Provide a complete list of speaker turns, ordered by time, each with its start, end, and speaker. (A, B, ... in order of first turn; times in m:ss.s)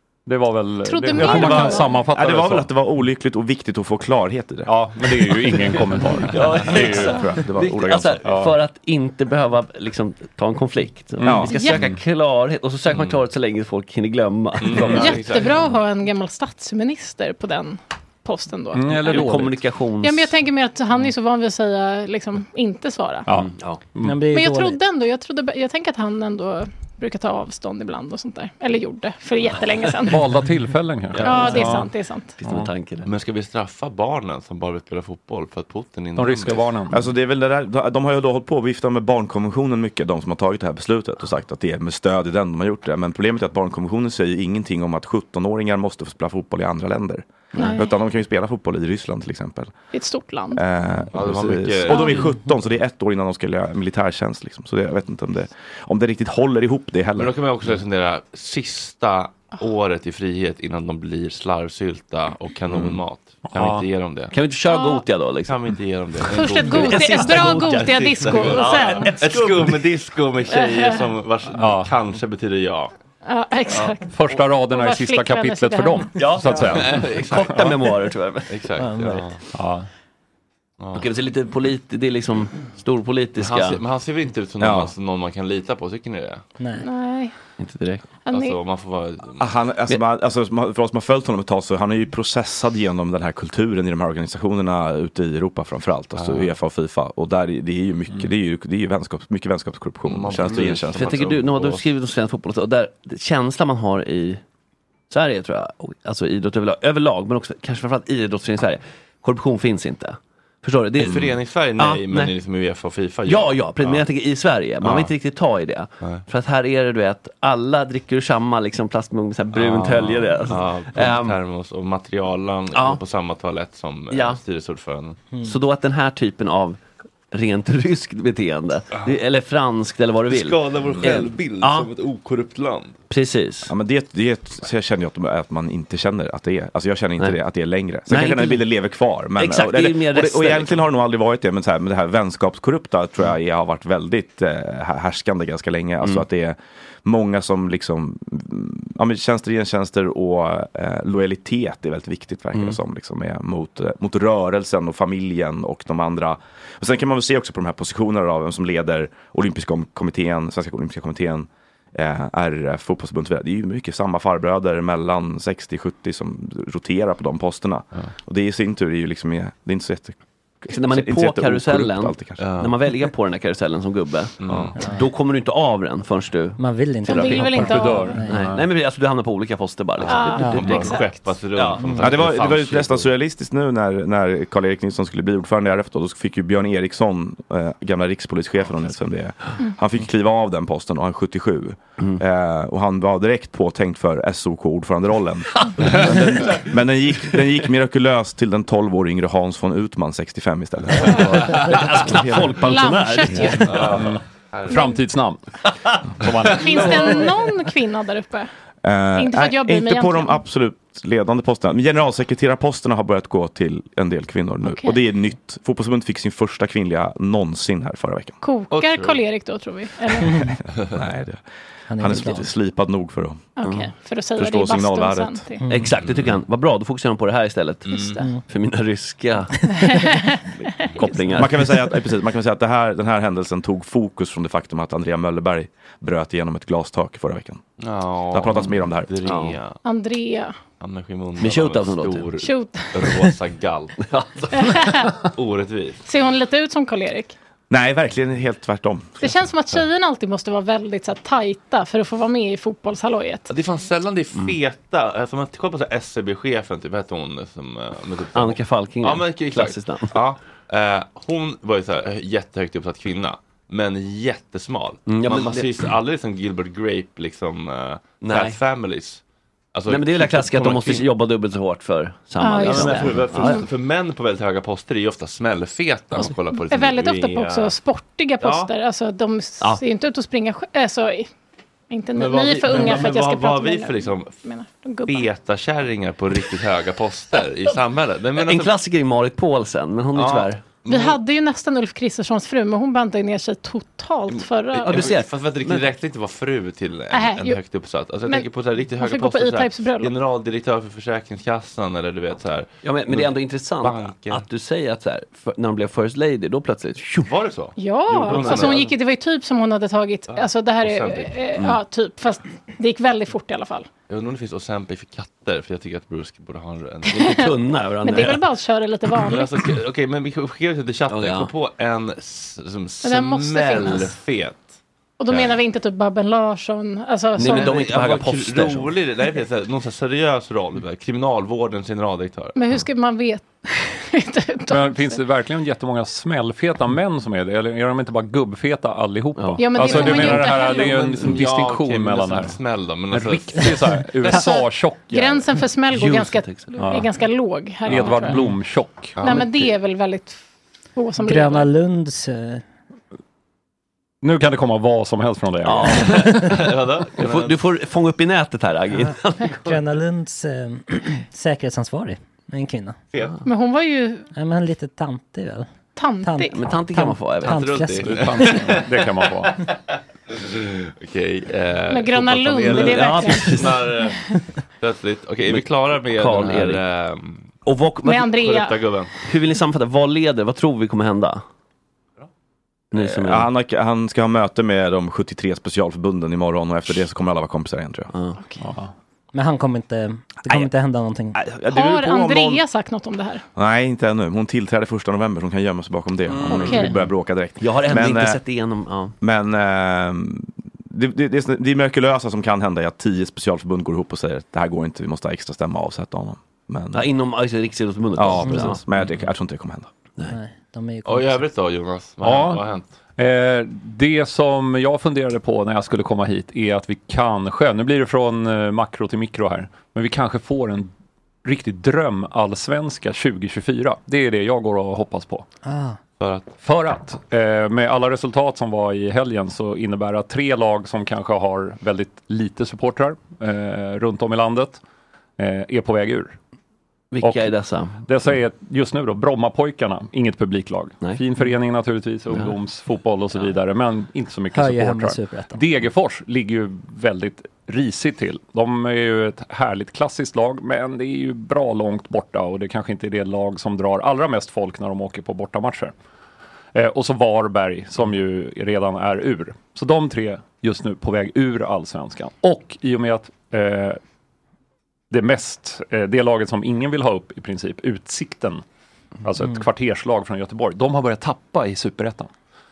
0:00.3-0:02.7 A
0:00.8-0:02.1 B
0:01.2-0:04.7 C
0:04.7-0:07.2 A
0:05.4-0:15.3 D
0:06.8-0:08.2 C
0:08.2-0:08.6 A
0:11.2-0:12.0 A
0:11.2-0:11.5 C
0:11.5-0:11.8 B
0:12.9-0:13.2 E
0:14.6-0:15.7 E
0:14.8-0:19.4 B
0:18.7-0:19.6 A
0:19.1-0:20.3 D
0:20.0-0:23.3 B
0:23.3-0:24.2 A
0:23.3-0:23.8 D
0:24.0-0:24.8 F
0:24.2-0:30.3 B
0:30.1-0:31.9 A
0:31.2-0:31.8 D
0:31.2-0:32.4 B
0:32.4-0:33.1 D
0:32.4-0:32.7 A
0:33.0-0:36.7 E
0:36.2-0:37.0 A
0:36.9-0:49.8 C
0:47.6-0:47.9 B
0:49.9-0:50.6 B
0:50.5-0:57.3 C
0:51.1-0:52.2 E
0:51.9-0:52.3 B
0:57.2-1:04.3 E
1:02.7-1:03.0 C
1:03.5-1:03.9 A
1:04.3-1:05.6 D
1:04.7-1:05.0 B
1:05.5-1:12.9 E
1:06.3-1:09.2 B
1:06.6-1:09.8 D
1:10.5-1:11.1 B
1:11.5-1:11.9 A
1:13.2-1:16.1 B
1:14.1-1:17.6 A
1:16.2-1:18.6 D
1:16.6-1:17.6 E
1:18.5-1:19.4 E
1:18.8-1:19.2 F
1:19.5-1:19.9 A
1:20.8-1:21.1 E
1:21.0-1:23.8 D
1:23.4-1:26.4 E
1:24.6-1:24.9 C
1:26.8-1:27.3 B
1:27.6-1:28.1 D
1:28.2-1:28.6 B
1:28.3-1:29.5 E
1:29.4-1:41.2 C
1:36.2-1:36.5 E
1:40.0-1:41.8 E
1:40.9-1:44.4 D
1:45.1-1:52.3 D
1:51.0-1:54.0 E
1:53.3-2:01.4 D
1:54.8-1:55.1 E
1:59.5-2:05.2 E
2:02.7-2:03.0 D
2:04.1-2:04.4 D
2:05.4-2:11.9 D
2:10.3-2:13.0 E
2:13.1-2:13.7 D
2:13.7-2:52.4 C
2:18.1-2:18.6 D
2:19.4-2:20.8 D
2:50.7-2:57.6 D
2:52.4-2:52.7 E
2:54.4-2:54.8 E
2:56.6-2:58.4 F
2:57.1-2:58.2 B
2:57.6-2:58.7 A
2:58.3-3:01.0 D
3:00.0-3:03.1 E
3:00.1-3:01.3 B
3:01.5-3:02.7 D
3:02.0-3:22.6 C
3:15.8-3:16.6 D
3:21.4-3:23.8 D
3:22.6-3:23.9 B
3:23.6-3:24.8 E
3:23.9-3:24.2 A
3:24.7-3:25.0 B
3:24.7-3:25.4 A
3:26.2-3:27.2 A
3:26.5-3:28.5 B
3:28.8-3:38.4 C
3:29.2-3:30.4 B
3:34.6-3:35.0 B
3:38.4-3:40.5 B
3:38.7-3:39.2 E
3:40.2-3:40.5 F
3:40.9-3:41.4 C
3:41.9-3:42.5 F
3:42.0-3:43.5 C
3:43.6-3:45.7 B
3:44.4-3:45.4 C
3:45.6-3:45.9 F
3:45.7-3:49.6 D
3:46.0-3:46.4 E
3:47.9-3:48.2 E
3:47.9-3:48.3 B
3:49.7-3:51.2 B
3:51.0-3:51.6 D
3:51.4-3:57.6 C
3:57.8-3:59.8 E
3:58.3-3:59.1 C
3:59.2-3:59.6 D
3:59.8-4:00.6 B
4:00.8-4:04.1 E
4:01.4-4:02.3 D
4:02.4-4:03.2 B
4:04.1-4:04.5 D
4:04.5-4:05.2 B
4:05.3-4:06.0 E
4:06.1-4:07.4 B
4:07.7-4:09.4 C
4:09.2-4:13.5 B
4:13.5-4:29.2 E
4:18.3-4:20.2 D
4:25.1-4:25.8 D
4:28.2-4:28.6 D
4:29.7-4:31.1 E
4:29.9-4:33.6 D
4:32.4-4:33.6 B
4:32.6-4:37.8 E
4:36.5-4:41.3 B
4:38.4-4:38.7 E
4:41.9-4:45.3 B
4:42.2-4:44.4 E
4:45.1-4:48.8 E
4:48.4-4:50.7 D
4:50.2-4:51.2 E
4:50.9-4:55.1 B
4:54.3-5:03.3 E
4:54.8-4:55.9 D
4:57.1-4:57.6 B
4:58.3-5:00.1 B
5:02.8-5:07.3 D
5:03.8-5:04.4 E
5:07.2-5:09.0 E
5:07.8-5:13.9 B
5:08.3-5:08.7 D
5:10.3-5:11.4 E
5:14.1-5:17.4 E
5:17.1-5:19.6 B
5:17.1-5:18.4 D
5:19.2-5:24.7 E
5:21.1-5:21.5 D
5:23.0-5:24.1 B
5:25.2-5:27.8 B
5:25.3-5:25.6 E
5:27.4-5:29.0 D
5:27.4-5:32.6 E
5:32.6-5:35.2 B
5:34.7-5:42.6 A
5:39.4-5:40.4 D
5:39.6-5:41.2 B
5:39.8-5:44.1 E
5:43.1-5:45.5 A
5:44.3-5:48.4 B
5:45.9-5:46.8 D
5:46.8-5:47.1 A
5:47.8-5:49.3 A
5:49.2-5:49.5 E
5:49.2-5:50.4 B
5:51.0-5:51.7 B
5:51.2-5:52.6 F
5:54.2-5:56.5 A
5:55.6-5:59.7 D
5:56.4-5:57.6 E
5:59.0-6:03.0 F
6:03.4-6:04.3 B
6:04.3-6:05.7 F
6:06.0-6:06.6 B
6:06.2-6:08.6 F
6:06.5-6:07.9 D
6:07.4-6:08.9 E
6:08.2-6:09.6 A
6:10.3-6:14.2 E
6:11.9-6:13.6 B
6:12.7-6:13.9 D
6:14.8-6:17.5 E
6:15.5-6:16.8 D
6:17.6-6:18.3 D
6:18.0-6:18.8 B
6:18.3-6:19.1 E
6:19.2-6:21.4 D
6:22.9-6:23.5 D
6:23.2-6:28.1 C
6:28.1-6:28.4 D
6:28.6-6:28.9 A
6:29.3-6:31.4 F
6:31.4-6:32.6 C
6:31.7-6:33.4 B
6:33.6-6:38.4 C
6:36.3-6:36.9 D
6:36.5-6:36.9 B
6:37.6-6:39.2 D
6:39.2-6:47.1 C
6:46.9-6:48.8 D
6:48.2-6:49.9 C
6:50.3-6:51.4 F
6:51.0-6:52.9 E
6:52.2-6:52.6 A
6:53.2-7:00.9 A
7:01.4-7:05.5 A
7:05.6-7:06.0 F
7:06.2-7:06.5 E
7:06.6-7:14.8 A
7:15.4-7:16.4 A
7:17.1-7:18.1 D
7:17.2-7:35.9 A
7:22.3-7:22.6 D
7:24.5-7:25.6 F
7:36.8-7:44.0 A
7:45.1-7:48.6 A
7:49.2-7:52.3 A